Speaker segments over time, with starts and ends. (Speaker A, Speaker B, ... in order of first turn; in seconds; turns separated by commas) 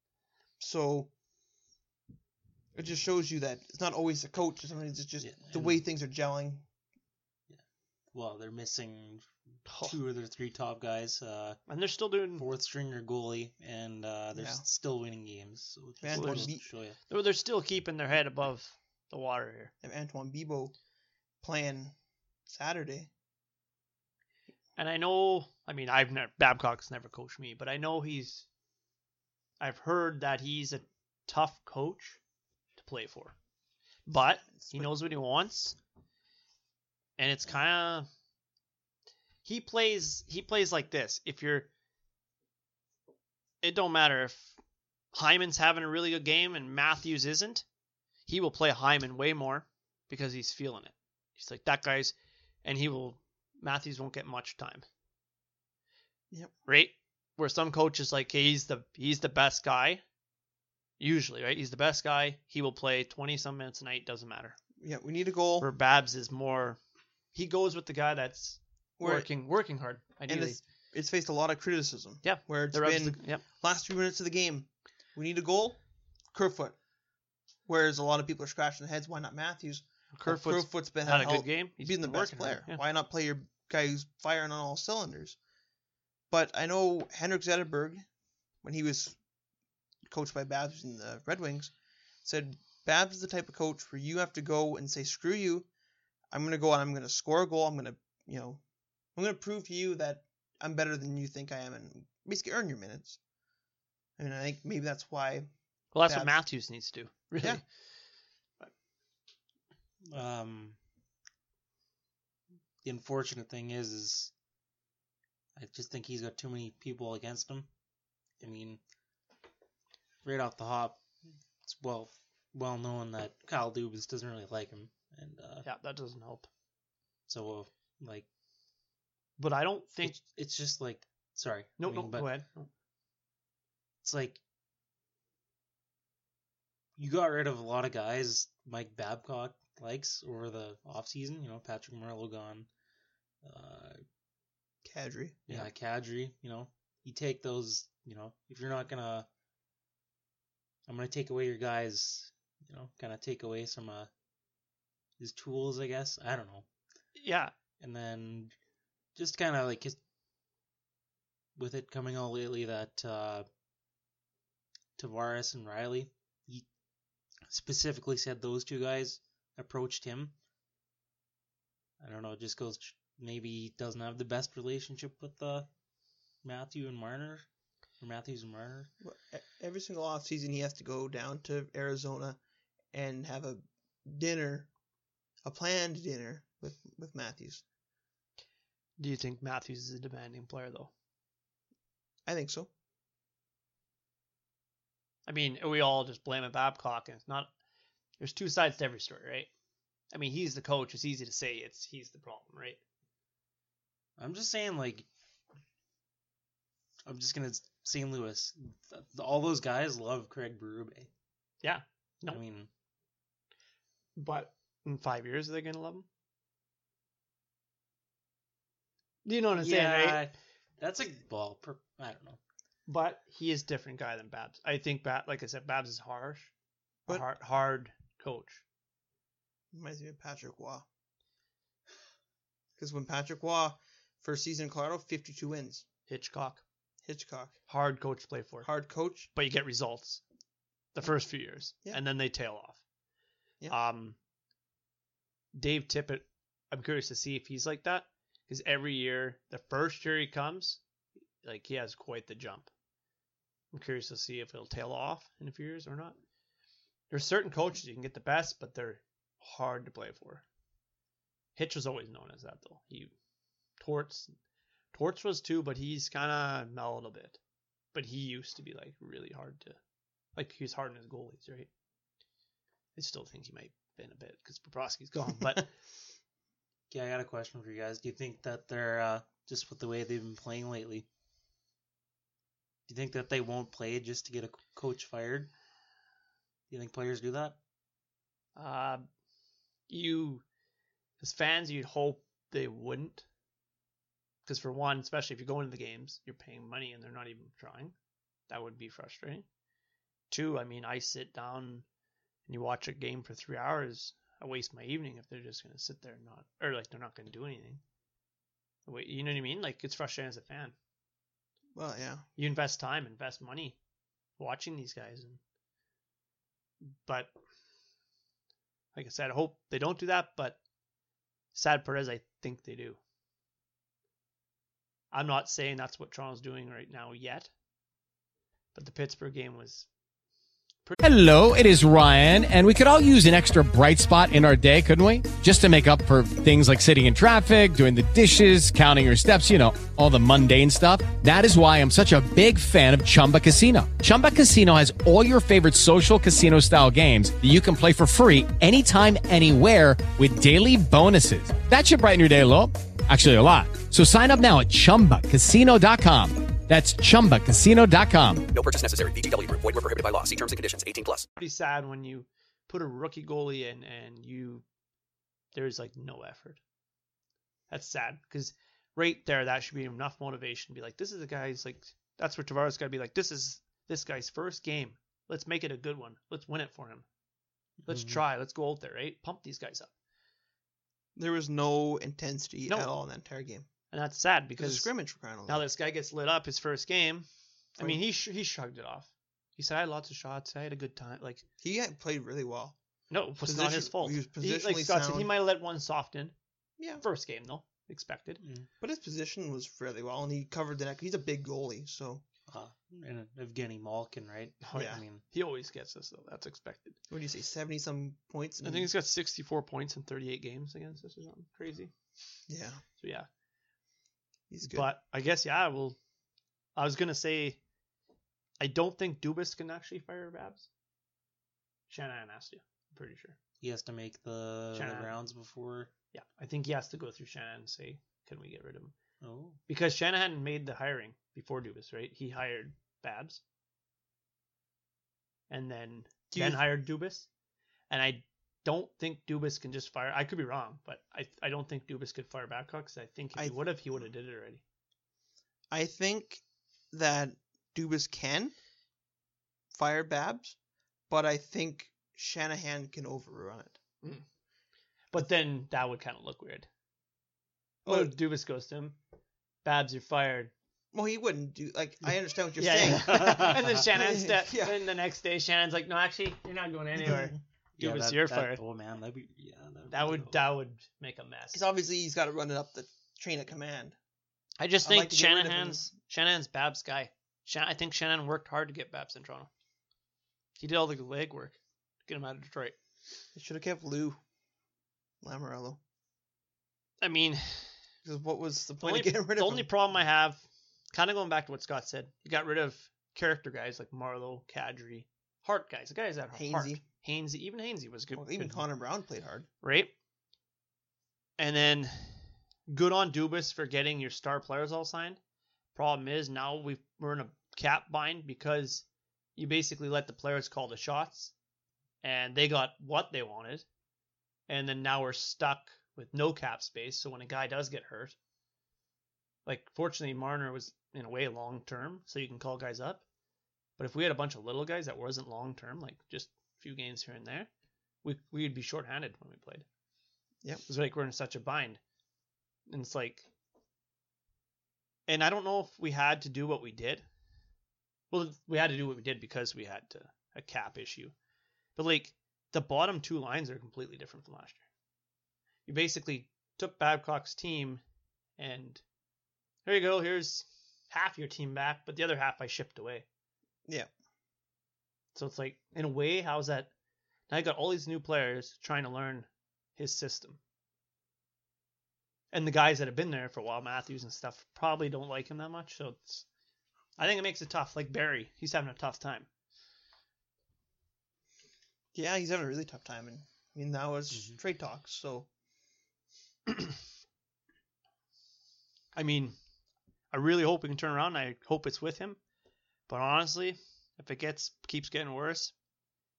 Speaker A: 0.6-1.1, Speaker A: 2.7-6.7, Speaker B: 5.2-5.8, Speaker B: 8.1-11.6, Speaker C: 9.7-9.9, Speaker C: 11.7-12.4, Speaker B: 12.4-17.0, Speaker A: 14.3-14.6, Speaker A: 16.0-16.6, Speaker C: 16.1-16.5, Speaker C: 17.1-19.7, Speaker A: 19.8-20.7, Speaker A: 21.4-21.9, Speaker A: 22.5-23.1, Speaker C: 24.8-28.5, Speaker C: 29.6-32.2, Speaker C: 32.8-33.4, Speaker C: 34.1-35.8, Speaker A: 34.5-35.0, Speaker C: 37.2-38.1, Speaker C: 39.5-41.7, Speaker C: 43.6-44.6, Speaker C: 45.1-47.6, Speaker C: 48.3-54.9, Speaker C: 56.7-60.0, Speaker C: 61.0-64.6, Speaker A: 64.8-65.7, Speaker C: 65.6-66.8, Speaker C: 67.3-70.6, Speaker A: 69.0-69.3, Speaker A: 70.3-75.8, Speaker C: 72.2-73.4, Speaker A: 76.3-76.8, Speaker A: 77.7-85.4, Speaker C: 80.2-82.8, Speaker A: 86.3-88.0, Speaker A: 88.6-89.2, Speaker A: 90.0-91.7, Speaker A: 92.2-95.7, Speaker A: 96.3-98.6, Speaker A: 99.2-103.2, Speaker A: 104.2-105.5, Speaker C: 105.9-107.6, Speaker A: 106.0-106.4, Speaker B: 110.1-110.8, Speaker B: 112.8-114.3, Speaker B: 115.6-117.7, Speaker B: 118.4-118.8, Speaker B: 120.2-121.0, Speaker B: 121.6-125.7, Speaker C: 125.7-126.5, Speaker B: 127.3-128.3, Speaker C: 129.4-130.2, Speaker B: 130.0-132.3, Speaker C: 131.8-132.7, Speaker B: 134.0-134.4, Speaker B: 137.0-142.7, Speaker B: 143.4-144.0, Speaker A: 144.8-145.7, Speaker B: 145.5-149.3, Speaker B: 150.9-154.1, Speaker B: 155.2-156.7, Speaker C: 157.2-157.5, Speaker B: 157.8-158.5, Speaker B: 159.2-160.0, Speaker B: 161.6-163.5, Speaker B: 165.0-166.7, Speaker B: 167.5-170.3, Speaker B: 172.0-175.7, Speaker B: 176.4-177.4, Speaker B: 178.0-178.9, Speaker A: 179.0-182.4, Speaker A: 182.9-184.7, Speaker A: 185.4-187.6, Speaker C: 189.0-190.9, Speaker A: 192.3-192.7, Speaker C: 195.3-197.5, Speaker C: 198.2-199.5, Speaker C: 200.1-202.8, Speaker B: 204.2-205.1, Speaker B: 207.1-211.1, Speaker C: 211.6-212.4, Speaker B: 212.3-212.7, Speaker C: 214.2-216.1, Speaker C: 219.2-220.2, Speaker B: 219.6-222.4, Speaker C: 222.9-226.5, Speaker C: 227.1-228.6, Speaker A: 229.7-230.9, Speaker A: 232.8-235.9, Speaker C: 236.1-236.6, Speaker A: 237.1-237.6, Speaker C: 237.7-238.7, Speaker A: 238.6-239.3, Speaker C: 239.3-240.2, Speaker C: 240.9-242.8, Speaker C: 243.7-244.2, Speaker C: 245.5-250.8, Speaker C: 251.4-252.7, Speaker C: 253.7-256.2, Speaker C: 257.1-260.4, Speaker C: 261.6-263.1, Speaker C: 263.8-264.3, Speaker C: 264.9-267.4, Speaker C: 267.9-269.8, Speaker C: 270.4-271.7, Speaker C: 273.0-275.7, Speaker B: 276.9-281.1, Speaker B: 282.9-285.5, Speaker B: 286.7-287.6, Speaker C: 288.6-289.1, Speaker C: 289.9-290.4, Speaker C: 291.2-293.2, Speaker C: 294.4-297.9, Speaker C: 298.5-299.5, Speaker C: 300.3-301.9, Speaker C: 302.5-307.8, Speaker C: 308.9-310.8, Speaker A: 311.8-312.2, Speaker C: 312.4-313.8, Speaker C: 314.4-315.4, Speaker C: 316.8-317.3, Speaker C: 318.9-320.6, Speaker C: 321.5-323.0, Speaker C: 325.1-327.5, Speaker C: 328.8-329.9, Speaker D: 331.0-358.4, Speaker E: 358.5-361.3, Speaker C: 361.4-364.6, Speaker C: 365.5-366.6, Speaker C: 367.7-377.1, Speaker B: 377.8-378.2, Speaker C: 377.9-379.9, Speaker A: 381.2-383.7, Speaker C: 383.9-384.9, Speaker A: 384.6-385.6, Speaker C: 385.5-391.4, Speaker A: 391.6-392.8, Speaker C: 393.1-396.4, Speaker A: 393.4-395.3, Speaker A: 396.8-397.0, Speaker C: 397.0-398.4, Speaker B: 398.4-398.7, Speaker A: 398.8-402.2, Speaker B: 402.5-405.2, Speaker C: 404.6-407.0, Speaker A: 404.7-405.0, Speaker A: 407.1-408.9, Speaker C: 408.6-411.9, Speaker A: 412.5-412.8, Speaker C: 413.0-413.3, Speaker A: 414.5-414.9, Speaker C: 414.7-416.0, Speaker C: 416.8-417.6, Speaker C: 418.6-420.7, Speaker C: 421.9-423.4, Speaker B: 423.6-425.9, Speaker C: 424.8-425.1, Speaker C: 426.1-428.9, Speaker B: 429.2-429.6, Speaker C: 429.7-433.4, Speaker C: 435.5-437.3, Speaker A: 436.3-436.6, Speaker C: 437.9-444.6, Speaker A: 443.4-443.7, Speaker A: 445.7-448.5, Speaker A: 449.7-450.6, Speaker A: 451.1-453.8, Speaker C: 455.1-456.7, Speaker A: 457.9-458.2, Speaker C: 457.9-459.0, Speaker C: 459.6-460.5, Speaker A: 460.9-464.9, Speaker C: 462.6-468.6, Speaker B: 462.9-463.8, Speaker B: 466.5-467.0, Speaker A: 467.0-467.4, Speaker B: 467.8-470.5, Speaker C: 469.9-471.6, Speaker A: 471.5-474.0, Speaker C: 474.6-479.5, Speaker A: 474.8-475.9, Speaker C: 480.6-482.8, Speaker A: 483.4-484.2, Speaker A: 485.2-485.8, Speaker C: 487.0-487.8, Speaker A: 488.0-489.7, Speaker C: 488.8-498.6, Speaker A: 496.3-496.8, Speaker A: 498.1-499.5, Speaker C: 499.6-499.9, Speaker C: 501.4-505.2, Speaker C: 505.8-508.9, Speaker C: 509.4-511.3, Speaker C: 512.0-513.7, Speaker C: 514.5-518.2, Speaker C: 519.5-523.0, Speaker C: 523.8-527.5, Speaker C: 528.0-529.7, Speaker C: 530.7-531.8, Speaker C: 532.7-533.3, Speaker C: 535.1-537.0, Speaker C: 538.1-541.1, Speaker C: 541.8-544.6, Speaker C: 545.7-547.8, Speaker C: 548.4-548.8, Speaker C: 549.6-553.1, Speaker C: 555.1-556.7, Speaker C: 557.3-560.4, Speaker C: 562.3-566.2, Speaker C: 567.0-569.3, Speaker A: 571.9-575.3, Speaker C: 579.0-579.4, Speaker C: 580.1-582.2, Speaker C: 582.9-585.5